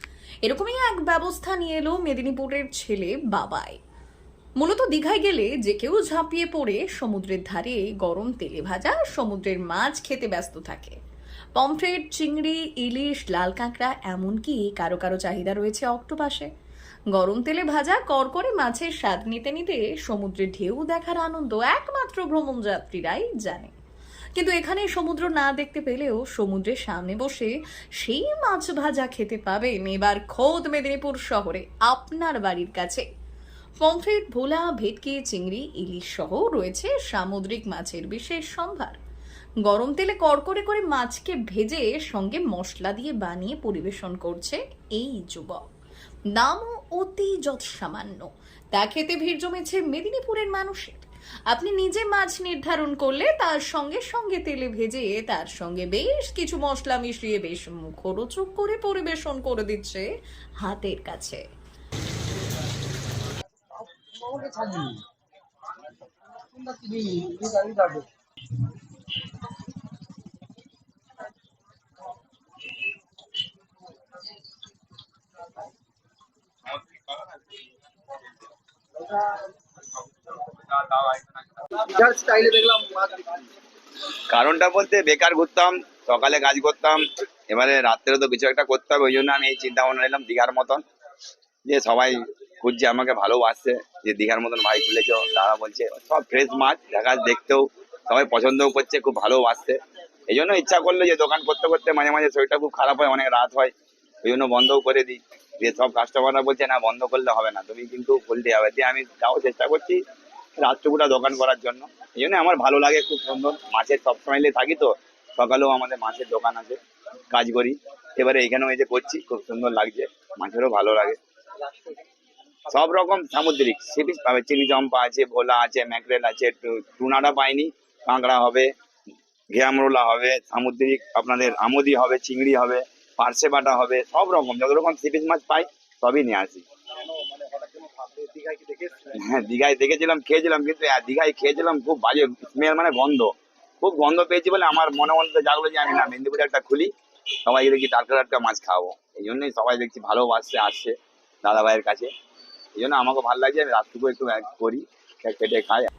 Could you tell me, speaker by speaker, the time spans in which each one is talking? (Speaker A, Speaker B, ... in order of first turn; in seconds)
Speaker A: 0.4-3.8, 4.6-10.9, 11.6-16.5, 17.1-23.7, 24.4-33.0, 33.8-39.0, 39.6-45.6, 46.3-60.1, 60.6-61.4
Speaker B: 63.8-65.0, 66.4-68.1, 79.0-79.5, 80.3-83.5, 137.1-139.1
Speaker C: 76.8-77.2, 84.3-90.8, 91.7-103.7, 104.2-110.0, 110.6-116.8, 117.3-121.7, 122.7-128.7, 129.5-136.6, 139.1-146.9, 147.4-152.1, 152.8-155.9